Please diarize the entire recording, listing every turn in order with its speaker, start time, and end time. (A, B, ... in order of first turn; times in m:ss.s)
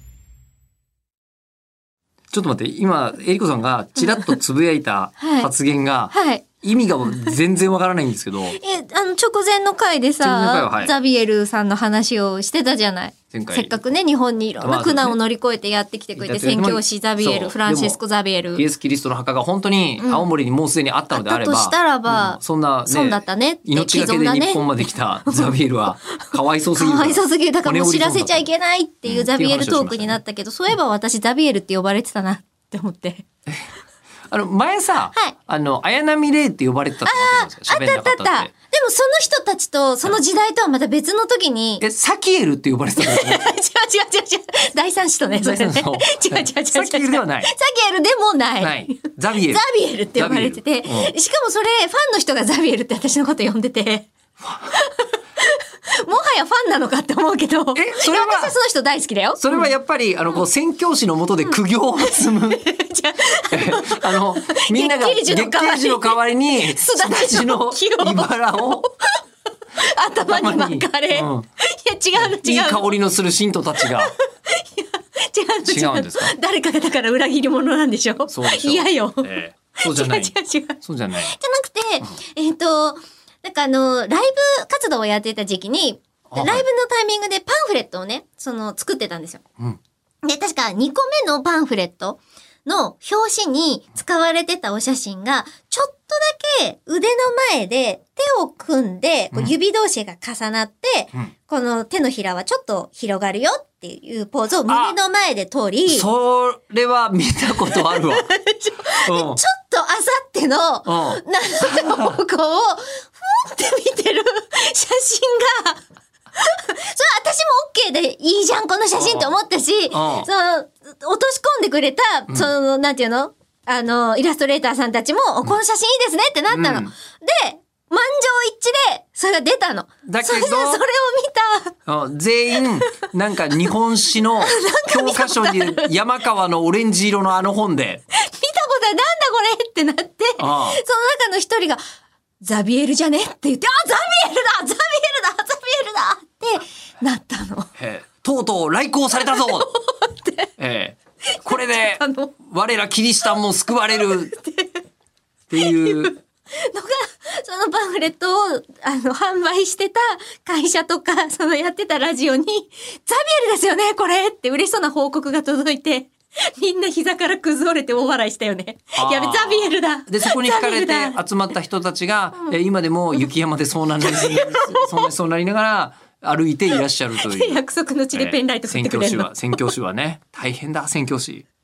0:02.3-0:08.6 A
0:04.0-0:04.3 B
0:05.2-0:05.5 B
0:06.1-0:07.4 B
0:08.5-0:18.6 B
0:10.2-0:10.9 A
0:13.3-0:13.8 A
0:14.6-0:15.2 A
0:16.2-0:18.0 A
0:18.5-0:28.5 A
0:20.0-0:20.3 B
0:21.1-0:25.6 B
0:26.1-0:33.2 B
0:29.0-0:30.2 A
0:34.3-0:38.5 A
0:37.0-0:41.8 B
0:41.8-0:43.5 A
0:43.0-0:54.1 B
0:45.4-0:47.5 A
0:48.6-0:49.6 A
0:50.2-0:51.1 A
0:54.6-0:59.7 B
0:57.7-0:58.5 A
0:59.4-1:02.6 A
1:01.4-1:09.2 B
1:03.5-1:08.8 A
1:09.8-1:12.9 B
1:10.2-1:11.4 A
1:12.2-1:14.1 A
1:13.8-1:29.4 B
1:15.6-1:16.3 A
1:18.3-1:21.3 A
1:26.3-1:26.6 A
1:30.2-1:46.1 B
1:44.7-1:45.0 A
1:45.8-1:48.3 A
1:47.7-1:55.8 B
1:49.0-1:49.4 A
1:50.8-1:52.2 A
1:56.4-2:11.8 B
1:58.9-1:59.3 A
1:59.9-2:00.3 A
2:06.5-2:06.9 A
2:10.0-2:10.8 A
2:11.9-2:18.0 A
2:12.7-2:13.0 B
2:14.4-2:15.9 B
2:18.1-2:21.8 B
2:20.4-2:20.8 A
2:22.4-2:27.7 B
2:27.8-2:29.7 A
2:29.1-2:30.5 B
2:30.6-2:34.3 A
2:31.3-2:32.4 B
2:33.9-2:34.8 B
2:35.5-2:36.1 A
2:35.6-2:51.2 B
2:49.0-2:57.6 A
2:54.0-2:55.1 B
2:57.2-2:59.6 B
2:58.1-3:01.4 A